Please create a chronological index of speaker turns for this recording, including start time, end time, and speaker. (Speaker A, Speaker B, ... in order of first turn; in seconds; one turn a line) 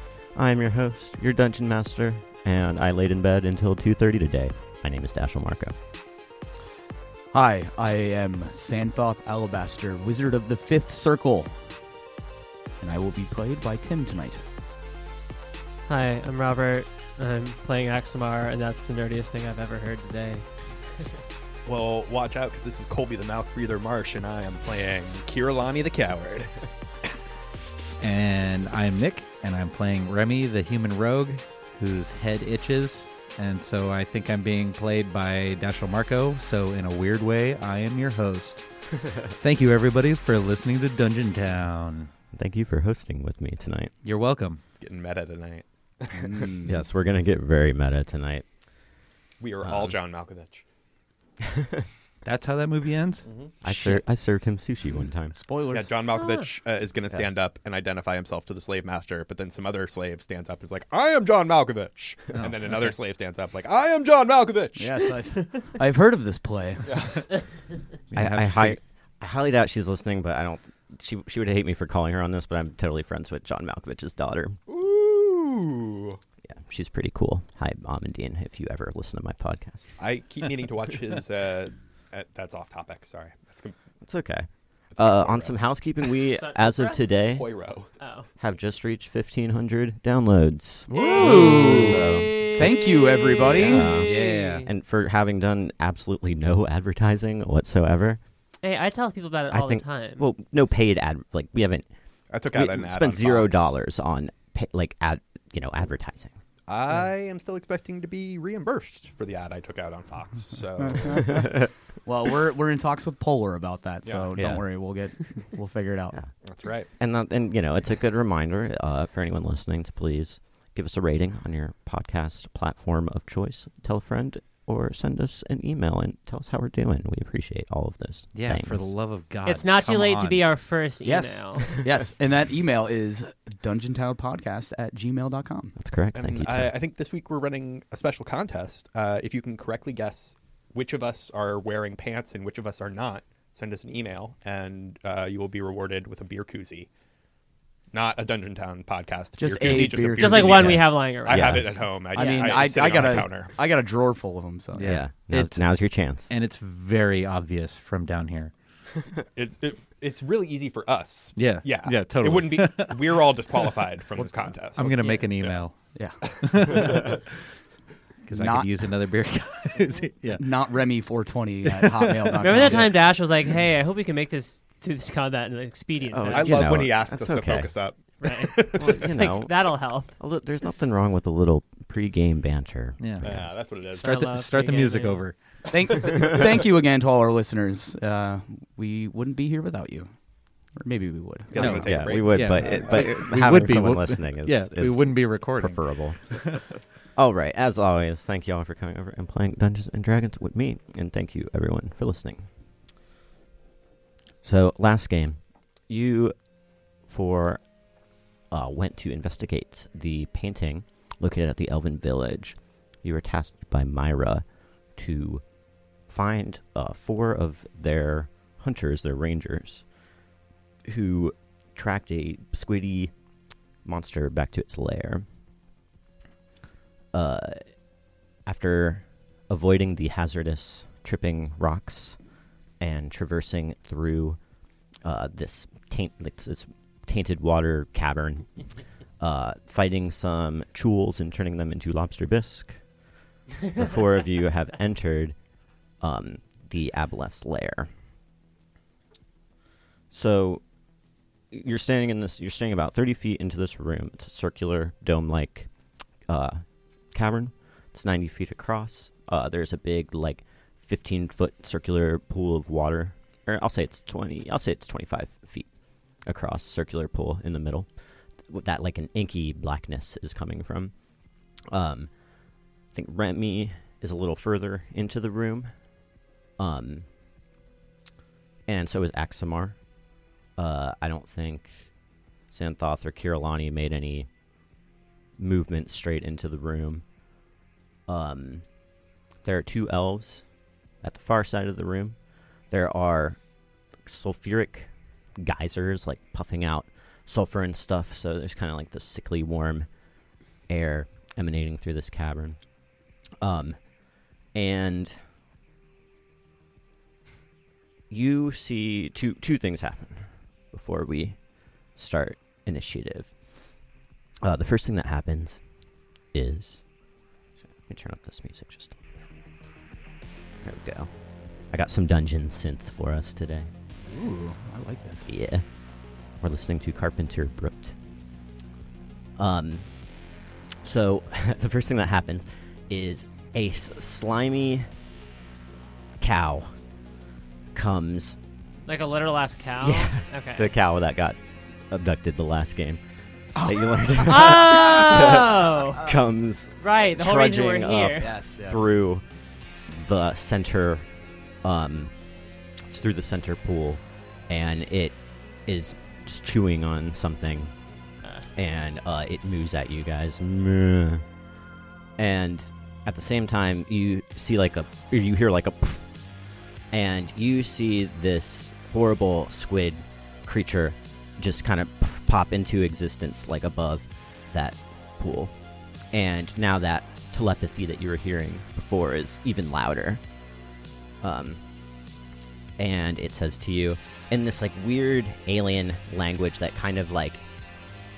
Speaker A: 0.3-5.8
Speaker B: 7.3-11.6
Speaker B: 12.8-14.4
Speaker C: 15.9-20.5
Speaker D: 21.7-26.6
Speaker E: 28.0-42.1
Speaker A: 42.3-43.9
Speaker E: 44.0-44.6
Speaker D: 44.8-46.5
Speaker B: 46.1-46.8
Speaker A: 46.7-48.4
Speaker D: 49.4-50.6
Speaker A: 49.6-50.0
Speaker A: 51.4-51.9
Speaker E: 52.2-54.0
Speaker D: 53.3-53.5
Speaker A: 53.6-55.4
Speaker B: 55.3-56.0
Speaker D: 55.7-65.1
Speaker C: 56.1-56.5
Speaker E: 62.4-62.9
Speaker B: 64.8-66.9
Speaker D: 66.9-67.3
Speaker E: 68.1-68.8
Speaker A: 68.1-74.6
Speaker D: 74.7-76.2
Speaker A: 76.4-79.9
Speaker D: 80.0-83.8
Speaker A: 84.0-87.5
Speaker D: 85.0-85.6
Speaker C: 86.3-87.0
Speaker D: 87.3-87.9
Speaker C: 88.0-88.3
Speaker A: 88.4-92.4
Speaker B: 90.9-92.0
Speaker C: 90.9-94.7
Speaker B: 92.5-93.9
Speaker A: 93.5-98.2
Speaker E: 94.0-94.7
Speaker C: 98.6-100.3
Speaker A: 99.5-101.9
Speaker D: 102.3-103.7
Speaker A: 102.5-106.3
Speaker D: 106.7-111.6
Speaker B: 112.0-116.2
Speaker D: 114.1-114.4
Speaker A: 114.4-114.6
Speaker D: 116.4-116.9
Speaker A: 117.0-128.9
Speaker E: 128.3-130.5
Speaker C: 129.4-131.7
Speaker B: 131.0-135.8
Speaker A: 135.8-136.7
Speaker D: 136.2-146.9
Speaker D: 147.9-153.6
Speaker B: 149.4-150.8
Speaker C: 149.8-151.7
Speaker A: 150.7-151.7
Speaker B: 152.1-155.0
Speaker E: 154.8-155.7
Speaker A: 154.8-156.3
Speaker E: 156.3-158.5
Speaker D: 159.3-165.6
Speaker E: 161.3-167.3
Speaker C: 164.8-165.3
Speaker B: 165.9-166.2
Speaker D: 166.2-167.2
Speaker E: 168.2-170.6
Speaker B: 168.3-168.8
Speaker B: 170.3-172.9
Speaker E: 171.6-172.7
Speaker C: 172.4-176.9
Speaker A: 176.1-177.7
Speaker D: 176.3-179.1
Speaker C: 178.2-180.1
Speaker A: 178.8-183.5
Speaker E: 183.0-185.4
Speaker D: 183.2-184.2
Speaker C: 183.9-185.2
Speaker B: 185.7-190.1
Speaker B: 190.7-191.6
Speaker D: 191.5-193.2
Speaker E: 191.6-196.7
Speaker A: 191.6-196.4
Speaker A: 197.2-202.5
Speaker A: 204.4-206.3
Speaker A: 207.1-207.6
Speaker A: 208.5-215.4
Speaker A: 216.1-219.8
Speaker A: 220.8-223.1
Speaker A: 223.8-225.2
Speaker A: 227.1-227.6
Speaker A: 228.5-232.2
Speaker A: 232.8-234.4
Speaker A: 235.0-238.5
Speaker A: 239.2-242.8
Speaker A: 243.8-245.3
Speaker A: 246.0-247.9
Speaker A: 250.1-250.6
Speaker A: 251.5-255.7
Speaker A: 256.3-265.7
Speaker A: 266.2-267.9
Speaker A: 268.4-270.9
Speaker A: 271.7-272.1
Speaker A: 272.9-275.7
Speaker A: 276.6-277.1
Speaker A: 278.7-279.8
Speaker A: 280.6-281.9
Speaker A: 282.5-284.3
Speaker A: 285.4-287.0
Speaker A: 288.1-288.6
Speaker A: 289.4-290.4
Speaker A: 291.0-292.2
Speaker A: 292.7-293.4
Speaker A: 294.0-299.9
Speaker A: 300.7-302.6
Speaker A: 303.4-303.9
Speaker A: 304.5-305.1
Speaker A: 308.1-311.4
Speaker A: 311.9-313.3
Speaker A: 314.4-315.6
Speaker A: 316.3-316.9
Speaker A: 317.6-319.0
Speaker A: 320.6-321.1
Speaker A: 321.7-323.7
Speaker B: 324.1-325.3
Speaker A: 325.3-325.6
Speaker A: 326.4-328.0
Speaker A: 329.4-329.9
Speaker A: 330.8-334.9
Speaker A: 336.2-336.7
Speaker A: 337.7-338.4
Speaker C: 338.9-340.7
Speaker A: 339.8-341.4
Speaker A: 341.9-343.0
Speaker B: 343.6-344.1
Speaker A: 343.6-349.2
Speaker C: 344.1-346.1
Speaker C: 346.8-348.3
Speaker B: 348.2-348.8
Speaker A: 349.9-351.1
Speaker A: 351.6-352.1
Speaker A: 352.8-357.7
Speaker A: 358.6-361.2
Speaker A: 362.2-366.1
Speaker A: 366.9-375.5
Speaker A: 376.1-380.2
Speaker A: 381.2-381.6
Speaker A: 382.8-387.4